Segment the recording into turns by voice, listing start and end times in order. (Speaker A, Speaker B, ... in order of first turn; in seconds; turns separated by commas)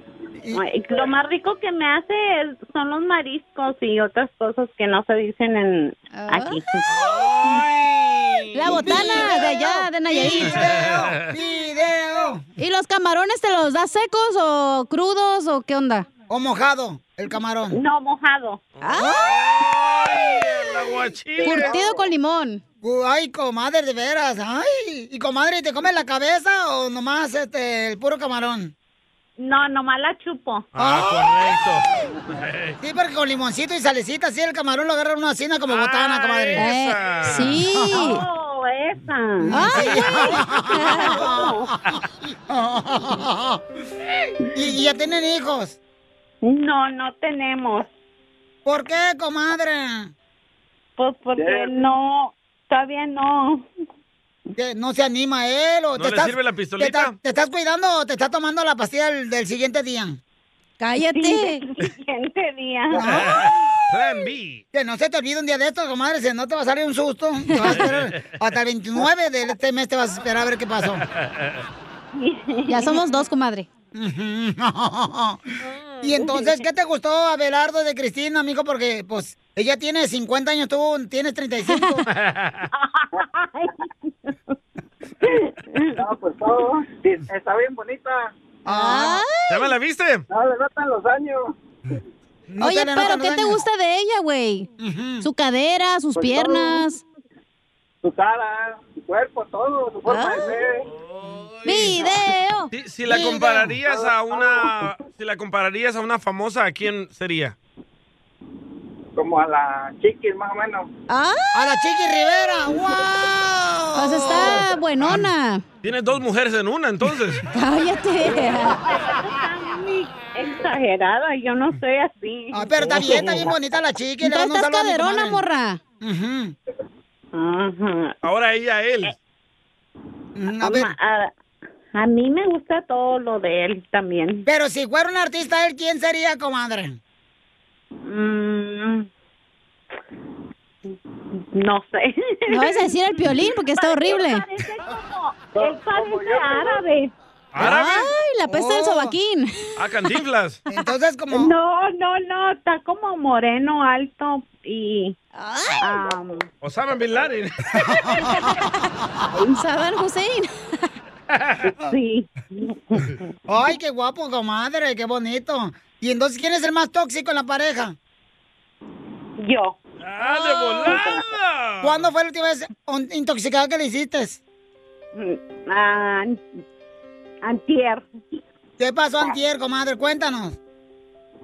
Speaker A: 0.5-6.9, Speaker B: 6.1-6.6, Speaker C: 7.0-9.1, Speaker B: 8.5-10.6, Speaker D: 8.7-12.4, Speaker C: 10.3-11.3, Speaker B: 12.6-16.1, Speaker D: 16.3-17.8, Speaker A: 17.7-18.6, Speaker B: 18.8-19.4, Speaker C: 18.8-21.8, Speaker B: 21.4-22.6, Speaker D: 22.8-28.7, Speaker A: 29.4-30.7, Speaker C: 30.7-32.8, Speaker D: 30.8-31.1, Speaker D: 32.8-36.7, Speaker C: 35.7-37.6, Speaker B: 36.6-38.2, Speaker A: 37.9-39.7, Speaker D: 39.4-43.6, Speaker B: 39.5-41.3, Speaker A: 41.2-41.7, Speaker D: 44.5-45.8, Speaker A: 46.4-47.9, Speaker D: 48.6-50.1, Speaker A: 51.0-53.6, Speaker E: 51.4-51.7, Speaker D: 54.6-60.2, Speaker C: 56.0-57.1, Speaker B: 60.8-61.6, Speaker A: 61.1-63.0, Speaker D: 62.9-63.3, Speaker C: 63.0-64.6, Speaker D: 64.7-71.0, Speaker B: 67.5-67.8, Speaker C: 67.6-68.1, Speaker C: 71.2-71.6, Speaker A: 72.1-73.0, Speaker B: 72.7-73.7, Speaker D: 73.9-75.4, Speaker D: 76.0-82.0, Speaker A: 76.2-76.5, Speaker C: 82.1-82.6, Speaker A: 82.7-83.7, Speaker E: 86.0-88.3, Speaker D: 88.7-89.2, Speaker B: 88.7-89.6, Speaker C: 89.5-90.2, Speaker E: 90.3-91.5, Speaker D: 92.5-93.6, Speaker B: 92.6-94.7, Speaker D: 94.8-95.3, Speaker B: 95.2-97.0, Speaker E: 96.2-96.8, Speaker E: 98.0-100.8, Speaker B: 100.1-100.5, Speaker C: 101.1-102.0, Speaker B: 101.6-102.7, Speaker C: 102.7-107.5, Speaker D: 103.1-103.8, Speaker E: 103.9-104.6, Speaker E: 109.2-110.9, Speaker B: 111.1-111.5, Speaker D: 111.5-115.3, Speaker B: 113.9-115.6, Speaker C: 115.8-117.5, Speaker B: 117.5-118.8, Speaker A: 118.2-123.4, Speaker D: 122.5-125.4, Speaker B: 124.2-125.8, Speaker D: 126.0-126.5, Speaker A: 127.3-128.2, Speaker C: 128.2-129.1, Speaker D: 130.3-130.9, Speaker A: 130.6-131.3, Speaker A: 131.9-134.5, Speaker D: 134.5-137.0, Speaker A: 138.0-139.1, Speaker A: 140.9-147.1, Speaker B: 142.5-144.4, Speaker E: 145.5-146.8, Speaker C: 147.5-148.1, Speaker B: 147.6-149.7, Speaker D: 148.5-149.1, Speaker C: 149.8-150.6, Speaker D: 150.7-151.5, Speaker A: 151.3-155.2, Speaker B: 155.3-155.8, Speaker A: 155.8-156.4, Speaker C: 156.6-158.0, Speaker D: 157.8-158.5, Speaker B: 159.5-160.5, Speaker A: 161.8-163.1, Speaker D: 163.5-167.9, Speaker A: 169.4-169.8, Speaker C: 170.0-172.1, Speaker D: 171.8-174.4, Speaker A: 175.1-176.4, Speaker A: 177.4-178.1, Speaker D: 178.8-180.6